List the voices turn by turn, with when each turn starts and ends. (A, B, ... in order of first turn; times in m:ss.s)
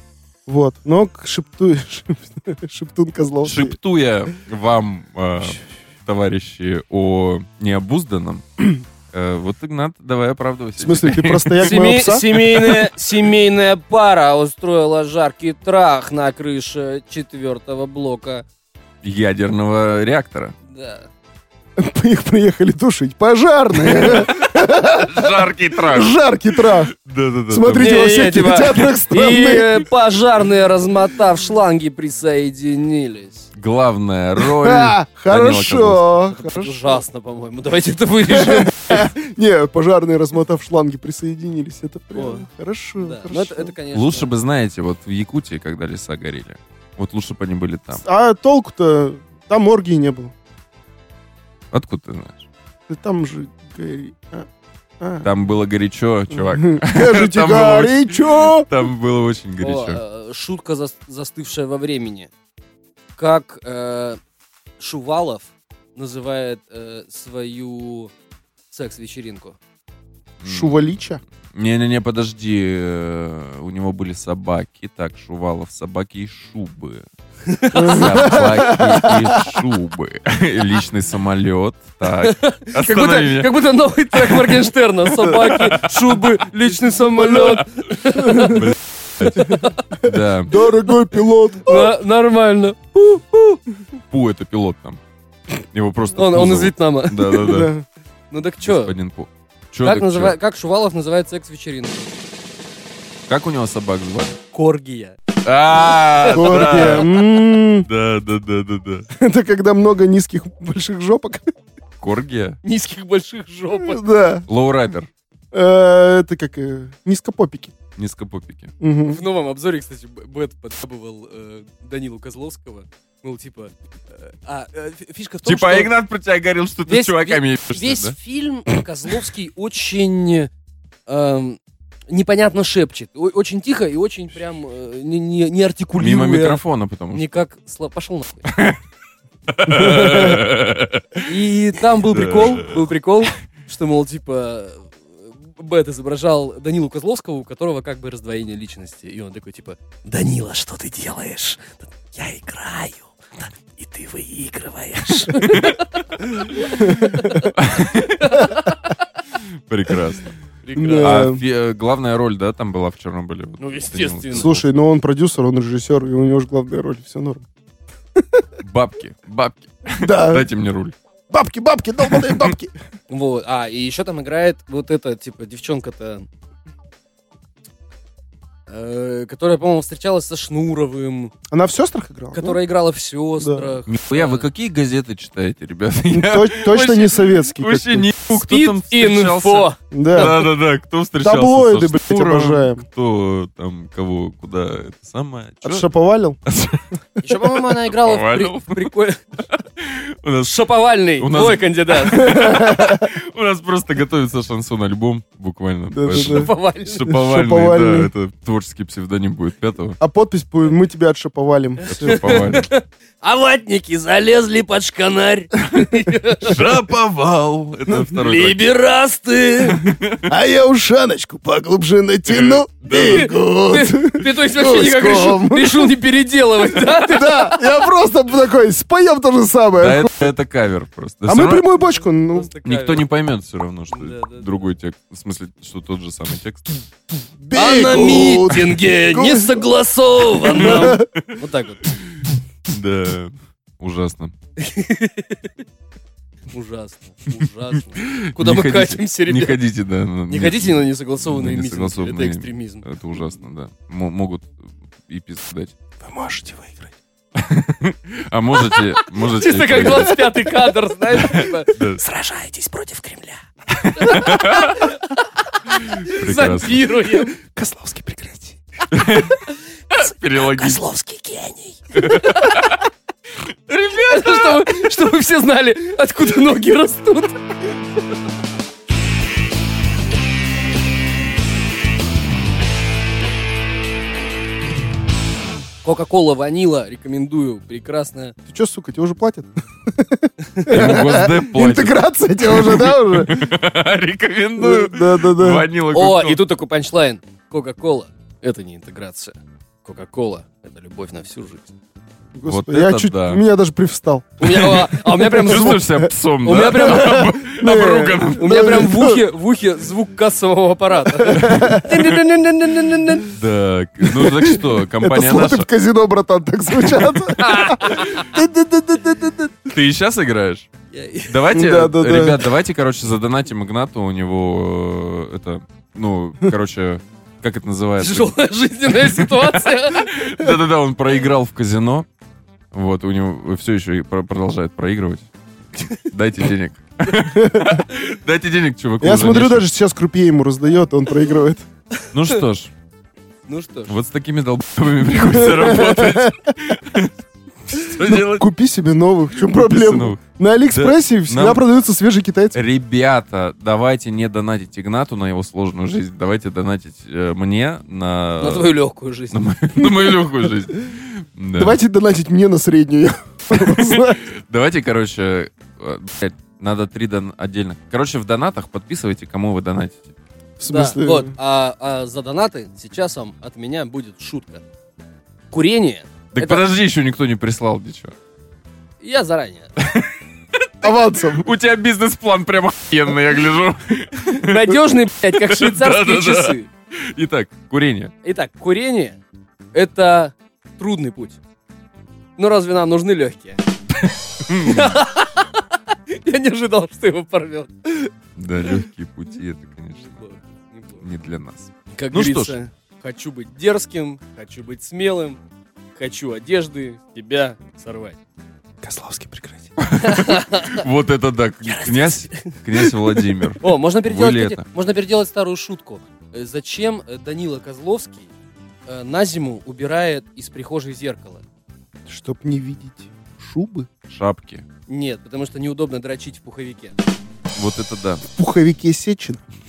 0:00.5-0:03.8 A
0:03.4-0:11.8 B
0:10.8-0:12.6 A
0:11.6-0:18.4 C
0:19.0-0:20.5 B
0:20.7-0:21.1 C
0:21.8-0:26.9 A
0:23.8-0:28.0 B
0:27.5-0:29.9 A
0:27.8-0:33.5 C
0:33.6-0:36.2 B
0:34.4-0:37.0 A
0:36.3-0:39.1 C
0:38.3-0:43.7 A
0:42.1-0:42.5 C
0:43.0-0:44.3 C
0:43.9-0:48.0 B
0:47.9-0:50.3 A
0:51.7-0:52.4 B
0:52.9-0:54.5 A
0:55.0-0:55.3 A
0:55.2-1:00.0 B
0:56.3-0:58.7 A
0:59.6-1:02.3 C
1:03.2-1:04.2 C
1:04.8-1:08.1 C
1:08.7-1:09.6 C
1:10.4-1:11.0 B
1:10.4-1:11.2 A
1:11.5-1:17.0 B
1:17.5-1:18.3 C
1:17.7-1:19.4 A
1:17.7-1:23.5 B
1:22.2-1:28.7 C
1:24.1-1:24.7 B
1:25.3-1:25.9 B
1:27.2-1:27.5 A
1:27.3-1:27.6 B
1:28.2-1:30.5 B
1:28.2-1:28.6 A
1:29.2-1:29.9 C
1:29.4-1:31.9 A
1:31.6-1:33.6 C
1:34.1-1:35.0 B
1:35.7-1:37.7 B
1:36.1-1:37.5 C
1:37.4-1:37.8 A
1:38.3-1:38.9 C
1:38.6-1:40.4 B
1:39.8-1:42.2 C
1:43.3-1:44.4 B
1:44.5-1:45.2 C
1:45.4-1:47.2 B
1:46.3-1:47.9 A
1:46.4-1:47.0 C
1:47.8-1:49.1 B
1:49.1-1:51.5 A
1:52.0-1:52.6 B
1:52.6-1:54.0 C
1:53.7-1:54.4 A
1:54.5-1:55.1 B
1:55.5-1:57.7 A
1:58.0-1:58.7 B
1:58.8-1:59.2 A
1:59.0-2:05.9 C
2:05.4-2:08.2 B
2:06.8-2:10.5 C
2:11.0-2:11.6 C
2:12.1-2:18.5 C
2:16.0-2:17.4 B
2:19.5-2:21.2 B
2:19.7-2:20.4 C
2:21.2-2:38.9 C
2:22.1-2:22.8 B
2:35.4-2:35.7 B
2:36.8-2:37.1 A
2:37.5-2:38.4 B
2:39.7-2:40.3 B
2:40.6-2:41.2 C
2:40.7-2:41.4 A
2:41.0-2:44.6 B
2:43.6-2:44.5 C
2:44.3-2:47.4 A
2:48.6-2:50.9 B
2:50.0-2:50.5 A
2:51.3-2:52.7 A
2:52.1-2:52.6 B
2:53.1-2:56.3 C
2:58.7-3:01.3 C
3:01.5-3:02.6 A
3:02.3-3:04.5 C
3:03.4-3:03.8 A
3:03.9-3:15.9 B
3:06.1-3:08.1 A
3:08.3-3:10.4 C
3:09.9-3:10.4 A
3:11.2-3:12.8 A
3:15.6-3:16.4 A
3:16.4-3:16.8 B
3:17.2-3:19.2 C
3:17.7-3:18.9 B
3:19.5-3:20.5 B
3:20.4-3:22.8 C
3:21.2-3:30.0 B
3:22.3-3:23.0 A
3:25.9-3:26.5 A
3:26.1-3:27.0 C
3:27.1-3:28.1 A
3:30.0-3:32.5 A
3:31.8-3:36.6 C
3:31.9-3:32.7 B
3:36.4-3:38.6 B
3:37.9-3:39.9 C
3:39.7-3:40.2 B
3:40.2-3:45.9 A
3:42.2-3:43.3 B
3:42.9-3:47.6 C
3:46.9-3:50.3 A
3:49.8-3:51.6 B
3:51.2-3:52.5 A
3:51.8-3:53.1 C
3:52.6-3:56.6 B
3:53.9-3:54.7 C
3:57.4-3:59.6 A
3:57.5-4:01.9 C
4:00.5-4:01.4 B
4:00.5-4:01.0 A
4:02.1-4:04.3 B
4:04.6-4:05.5 C
4:06.5-4:09.6 C
4:08.1-4:14.6 B
4:10.3-4:12.8 C
4:15.1-4:15.7 B
4:16.0-4:16.8 A
4:17.4-4:20.5 B
4:18.6-4:23.4 C
4:21.1-4:22.0 B
4:23.8-4:24.8 B
4:23.9-4:27.4 C
4:26.0-4:26.8 B
4:27.0-4:28.6 A
4:28.9-4:30.8 B
4:30.4-4:32.6 C
4:31.9-4:32.8 B
4:33.7-4:34.7 B
4:34.1-4:37.4 C
4:45.8-4:48.3 C
4:48.5-4:53.3 A
4:50.5-4:51.0 C
4:50.7-4:56.4 B
4:54.6-4:55.7 A
4:55.9-5:01.7 C
5:02.3-5:04.4 A
5:02.4-5:03.4 B
5:04.4-5:05.8 C
5:04.5-5:08.8 B
5:05.3-5:06.1 A
5:06.4-5:07.3 C
5:06.6-5:09.2 A
5:08.4-5:13.3 C
5:11.2-5:11.9 A
5:13.3-5:15.7 B
5:14.0-5:19.7 A
5:17.4-5:18.2 C
5:19.7-5:20.7 B
5:20.9-5:21.4 C
5:21.3-5:28.4 B
5:21.5-5:22.4 A
5:28.0-5:30.1 C
5:28.9-5:32.0 B
5:32.7-5:35.3 B
5:35.8-5:39.7 B
5:37.3-5:37.8 A
5:39.0-5:41.6 A
5:42.1-5:42.7 B
5:43.4-5:44.0 C
5:43.9-5:47.1 B
5:45.4-5:46.3 A
5:47.7-5:48.5 B
5:48.0-5:52.6 A
5:49.3-5:50.2 B
5:50.7-5:51.6 B
5:52.5-5:58.8 B
5:58.4-5:59.4 C
5:59.3-6:01.8 B
5:59.8-6:00.4 A
6:01.6-6:04.2 A
6:03.5-6:10.1 B
6:10.6-6:11.3 A
6:10.7-6:14.6 C
6:15.5-6:16.6 C
6:16.3-6:18.1 B
6:19.0-6:19.7 C
6:20.8-6:21.5 A
6:20.8-6:24.7 B
6:24.3-6:26.7 C
6:25.3-6:26.6 B
6:27.1-6:28.1 B
6:28.2-6:29.2 C
6:29.7-6:31.4 C
6:32.4-6:33.6 C
6:34.5-6:35.0 B
6:34.6-6:38.1 C
6:38.4-6:40.2 B
6:39.9-6:41.0 C
6:41.0-6:42.6 B
6:41.9-6:45.4 C
6:45.9-6:48.2 C
6:48.8-6:49.7 A
6:49.8-6:54.6 B
6:50.0-6:50.8 C
6:51.6-6:52.9 C
6:53.6-6:58.3 C
6:58.9-7:01.4 C
7:02.1-7:03.9 A
7:04.1-7:04.6 B
7:04.9-7:07.0 C
7:07.5-7:08.2 B
7:08.3-7:09.4 A